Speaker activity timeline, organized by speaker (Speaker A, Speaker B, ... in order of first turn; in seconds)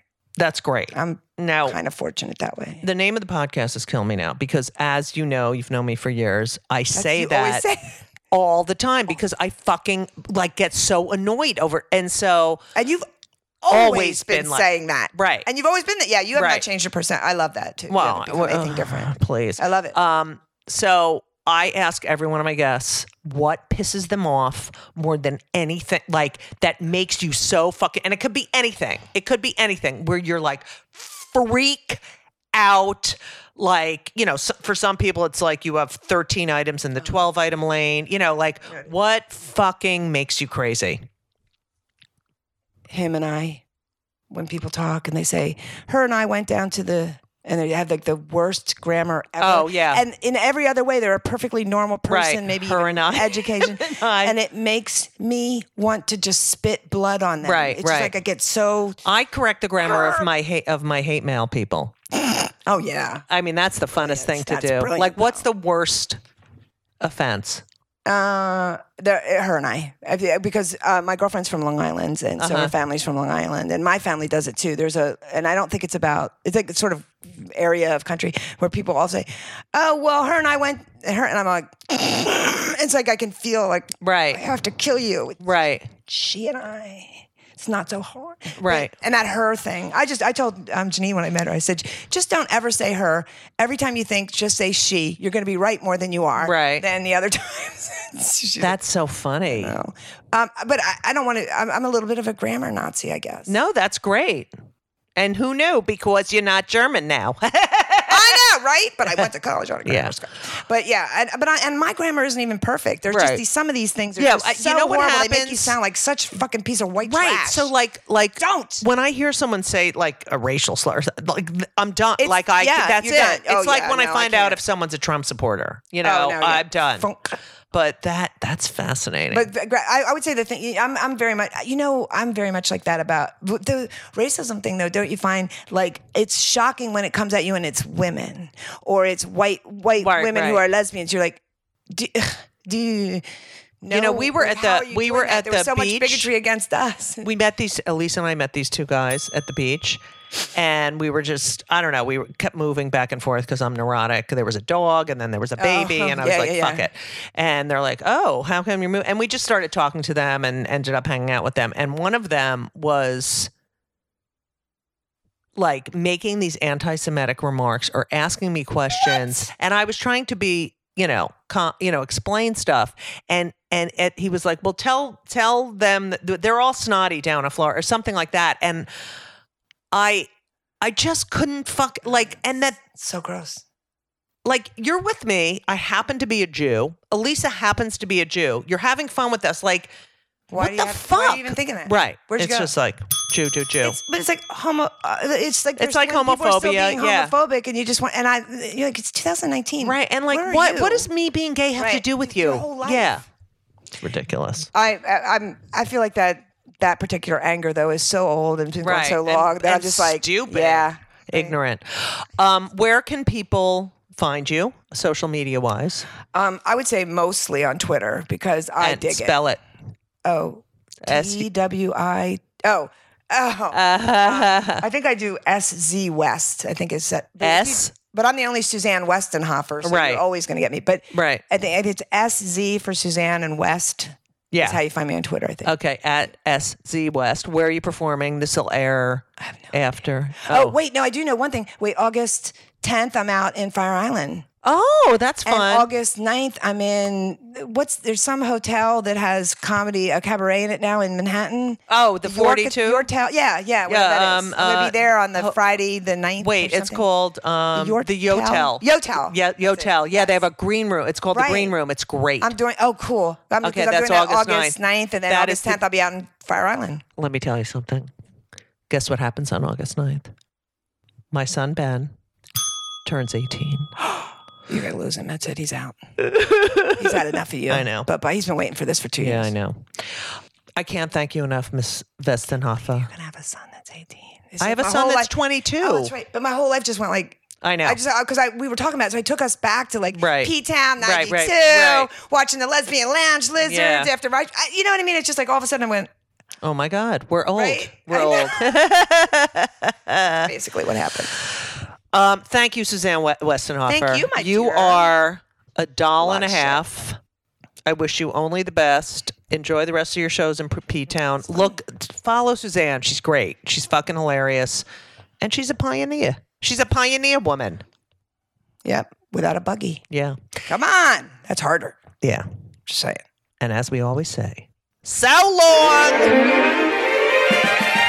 Speaker A: 0.4-1.8, 2.8-7.6, 8.3-12.6, 13.7-15.4, 16.3-16.6, 17.9-32.0, 32.5-41.0, 49.4-50.0, 52.1-54.4, 57.4-58.1, 59.0-61.9, 63.3-66.2, 67.0-67.6, 72.4-72.7, 84.0-84.4, 85.4-85.9, 88.6-88.9, 96.4-96.8, 98.6-99.7, 103.5-104.5, 105.2-108.4, 109.8-110.1, 113.1-113.4, 114.2-115.8, 117.0-127.0, 127.7-129.5, 140.0-140.6, 143.9-146.3, 147.2-150.0, 150.5-163.5, 165.6-178.9, 179.9-180.3, 180.8-182.8, 184.4-189.9, 190.6-194.0, 195.8-197.3, 199.8-203.2, 203.9-204.7, 208.8-216.1, 218.8-219.6, 221.0-221.5, 223.7-224.8, 227.4-227.9, 229.8-230.2, 231.1-231.4, 234.5-234.8, 235.6-240.8, 244.6-245.9, 251.9-253.1, 253.9-255.6, 256.4-262.5, 263.6-265.8, 267.2-268.1, 268.9-270.3, 271.3-272.1, 273.0-273.9, 276.2-278.1, 279.2-283.1, 284.6-286.1, 287.6-288.0, 290.1-292.1, 293.6-294.1, 296.6-300.5, 301.3-307.2, 307.8-314.8, 315.4-317.8, 320.1-320.4, 323.6-326.4
Speaker B: 0.9-2.8, 6.9-8.0, 12.7-13.1, 13.6-19.9, 42.9-43.6, 44.3-59.0, 59.8-60.2, 62.1-63.2, 63.9-65.4, 68.0-98.8, 99.5-103.6, 108.1-117.7, 118.4-118.8, 122.2-124.6, 126.0-127.4, 129.3-141.4, 141.9-143.2, 143.8-147.3, 155.6-156.8, 182.2-183.6, 190.5-192.7, 193.8-201.1, 201.8-203.2, 204.7-211.6, 216.3-219.4, 220.2-235.7, 239.4-239.8, 240.4-244.4, 245.4-257.0, 257.7-260.4, 261.3-261.7, 262.4-267.0, 274.1-275.9, 276.9-279.5, 283.0-296.1, 297.5-298.7, 300.4-301.3, 303.9-305.1, 306.2-306.8, 318.8-320.0, 320.7-322.0, 322.9-323.2